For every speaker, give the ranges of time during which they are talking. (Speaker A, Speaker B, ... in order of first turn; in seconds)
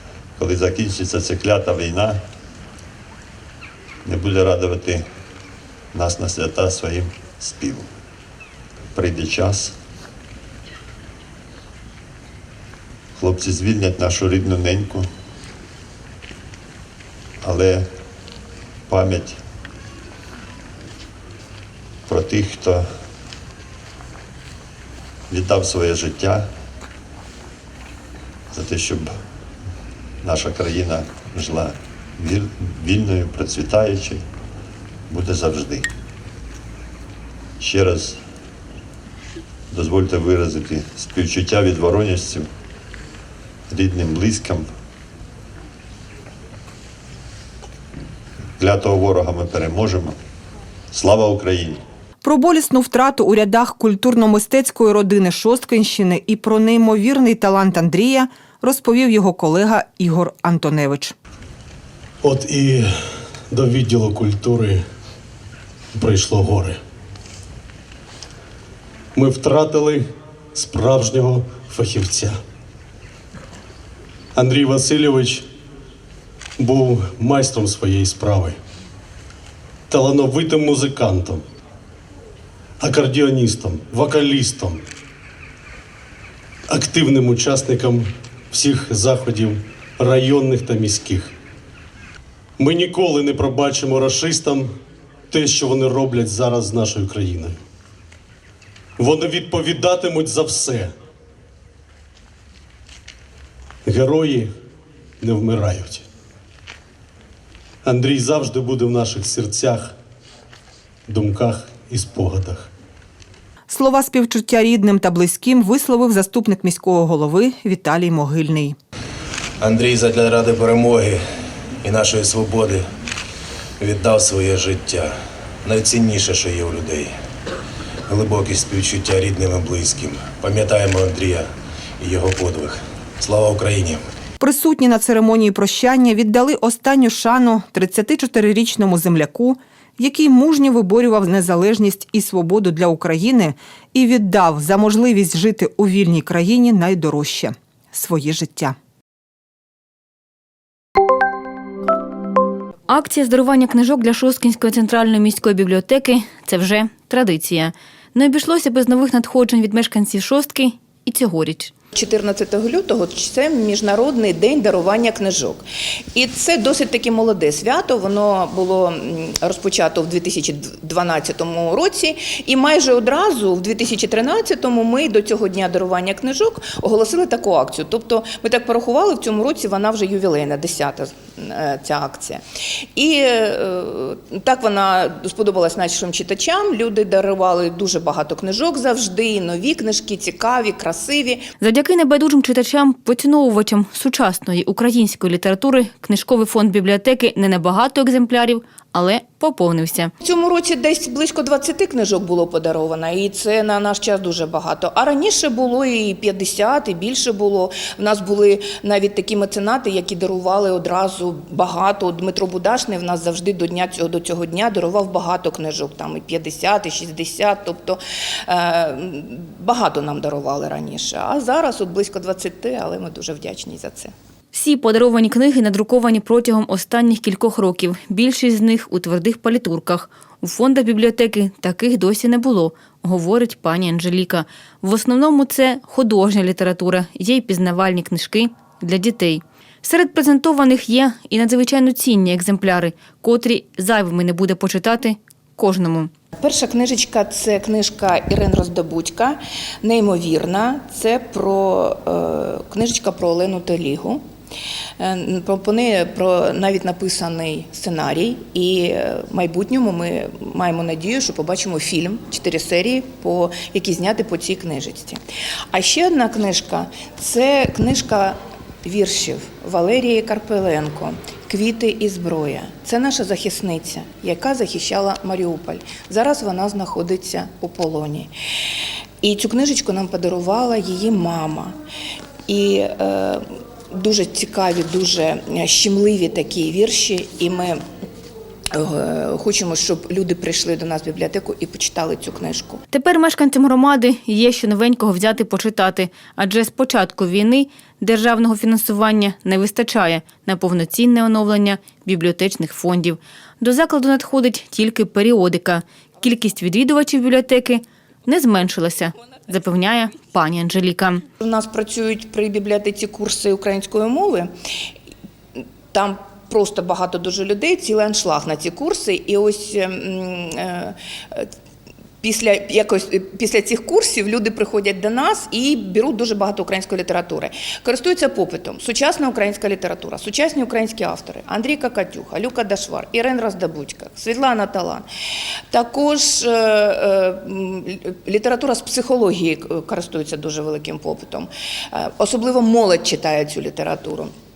Speaker A: 0.4-2.2, 4.0-5.0, 5.9-7.9, 8.9-9.8, 13.2-15.1, 17.4-17.9, 18.9-19.4, 22.1-22.9, 25.3-26.5, 28.5-29.1, 30.2-34.2, 35.1-35.9, 37.6-38.2, 39.7-42.5, 43.7-44.7, 48.6-50.2, 50.9-51.8
Speaker B: 52.2-61.1, 113.7-118.8, 134.4-148.8
Speaker C: 62.2-62.9, 63.5-64.8, 66.0-66.8, 69.2-72.4, 74.4-75.5, 76.6-78.6, 79.9-81.4, 82.8-84.8, 86.7-91.3, 92.6-94.7, 95.3-97.6, 99.0-100.9, 103.8-104.5, 105.2-106.0, 107.8-110.0, 111.1-112.7
Speaker D: 119.6-121.1, 121.9-122.8, 123.9-125.1, 125.7-127.1, 128.1-131.4, 132.0-134.0
Speaker E: 152.9-161.7, 191.6-200.1, 224.5-246.1, 292.9-311.2
Speaker F: 161.9-182.4, 182.9-191.5, 200.2-224.1, 246.4-254.2, 255.0-278.3, 279.2-281.8, 282.5-287.8, 288.7-292.8, 311.4-314.5, 315.9-321.5, 322.2-335.1, 335.7-344.3